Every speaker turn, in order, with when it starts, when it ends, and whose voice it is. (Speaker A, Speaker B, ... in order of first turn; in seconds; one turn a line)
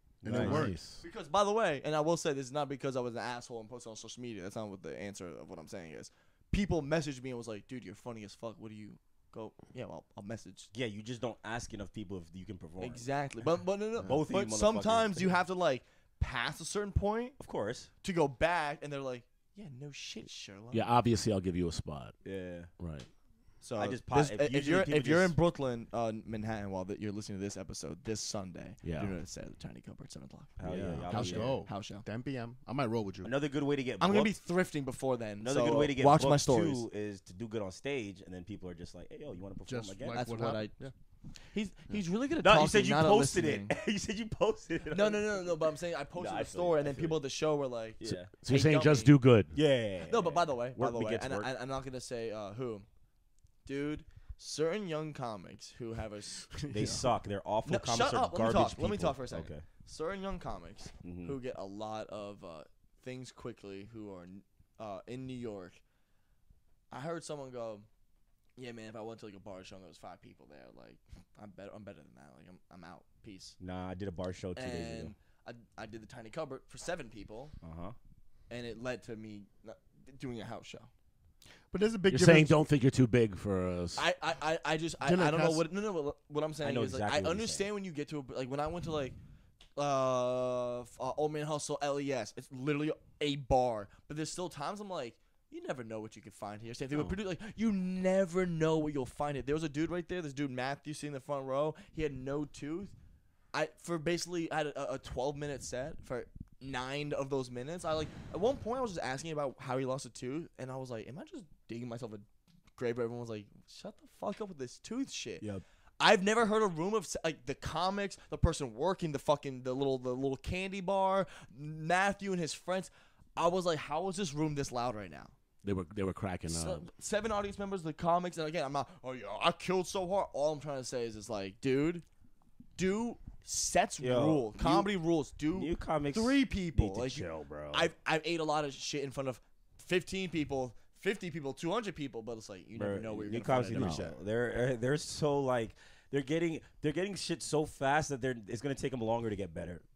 Speaker A: 0.2-0.7
Speaker B: 0.2-0.8
Speaker C: 0.3-1.0
Speaker D: 1.0-10.7
Speaker A: 10.7-13.0
Speaker D: 12.8-17.4
Speaker A: 14.0-15.3
Speaker A: 17.4-17.9
Speaker D: 18.0-20.9
Speaker C: 20.7-22.1
Speaker A: 22.2-22.7
Speaker C: 22.8-23.1
Speaker D: 23.6-30.6
Speaker A: 23.8-25.3
Speaker C: 28.8-29.1
Speaker A: 30.6-31.6
Speaker C: 30.6-31.3
Speaker B: 31.1-33.3
Speaker D: 31.1-32.0
Speaker A: 33.2-34.4
Speaker D: 34.0-36.8
Speaker A: 35.4-40.3
Speaker B: 39.6-40.9
Speaker D: 40.1-40.9
Speaker D: 41.5-43.7
Speaker A: 42.4-47.2
Speaker D: 44.9-49.1
Speaker A: 48.0-48.3
Speaker C: 48.4-49.5
Speaker A: 49.5-51.5
Speaker D: 50.0-52.9
Speaker D: 53.6-56.5
Speaker B: 56.5-57.0
Speaker A: 56.7-59.6
Speaker D: 57.6-65.8
Speaker A: 61.0-61.3
Speaker D: 66.9-67.9
Speaker D: 68.6-73.6
Speaker A: 73.6-75.1
Speaker D: 74.5-77.5
Speaker A: 77.6-77.9
Speaker D: 78.5-80.9
Speaker B: 81.7-82.6
Speaker C: 82.1-84.0
Speaker D: 83.9-89.2
Speaker B: 85.0-85.6
Speaker A: 86.6-87.7
Speaker D: 89.8-102.9
Speaker D: 103.5-112.2
Speaker D: 112.8-115.4
Speaker D: 116.0-125.3
Speaker C: 125.6-126.8
Speaker D: 126.5-132.0
Speaker D: 132.8-144.2
Speaker A: 134.0-134.9
Speaker A: 135.5-137.9
Speaker A: 142.8-149.8
Speaker C: 143.7-144.0